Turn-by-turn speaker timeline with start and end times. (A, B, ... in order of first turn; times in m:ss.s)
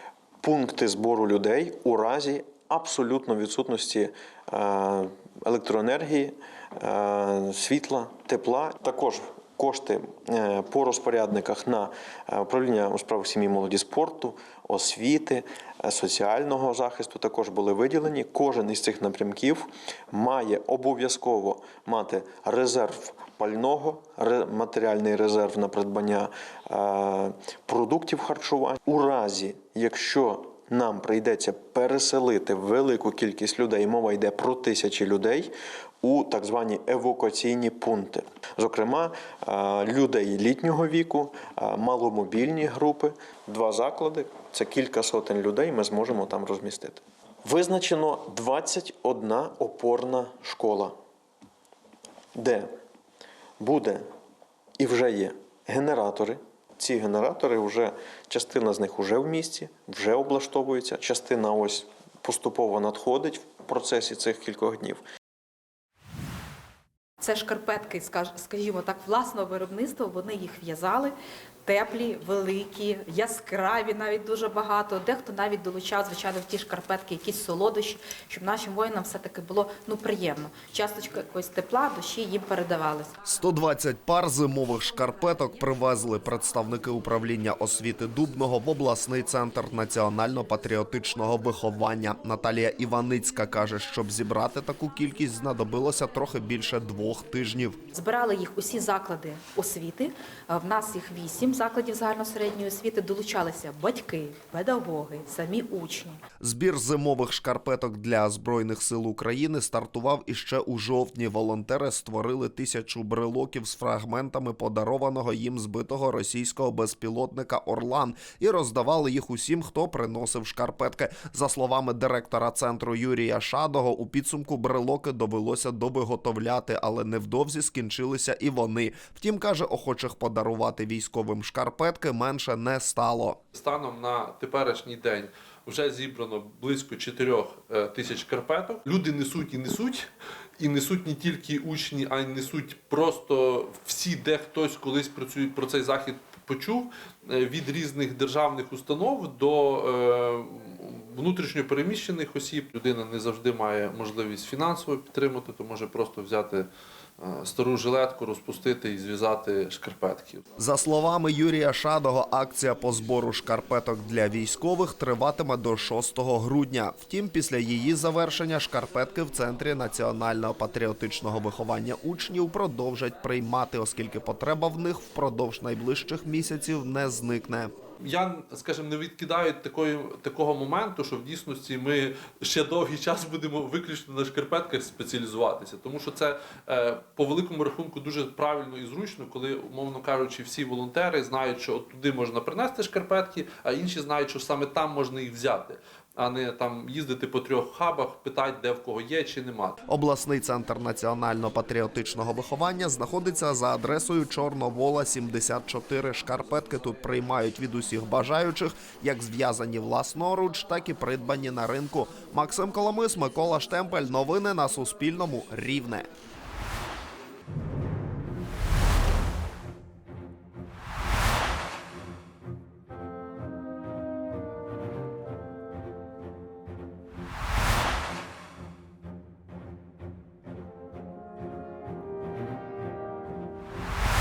0:00.4-0:50.9 A
0:52.4-0:52.7 A
0:53.6-0:54.0 A
0:54.8-1:05.0 A
1:07.2-1:11.1 B
1:11.6-1:23.2 B
1:23.2-1:37.8 C
1:37.9-1:46.2 B
1:46.4-2:13.4 C
2:13.5-2:20.0 D
2:20.6-2:40.4 D
2:40.6-2:57.7 C
2:58.0-3:19.8 D
3:19.9-3:36.1 C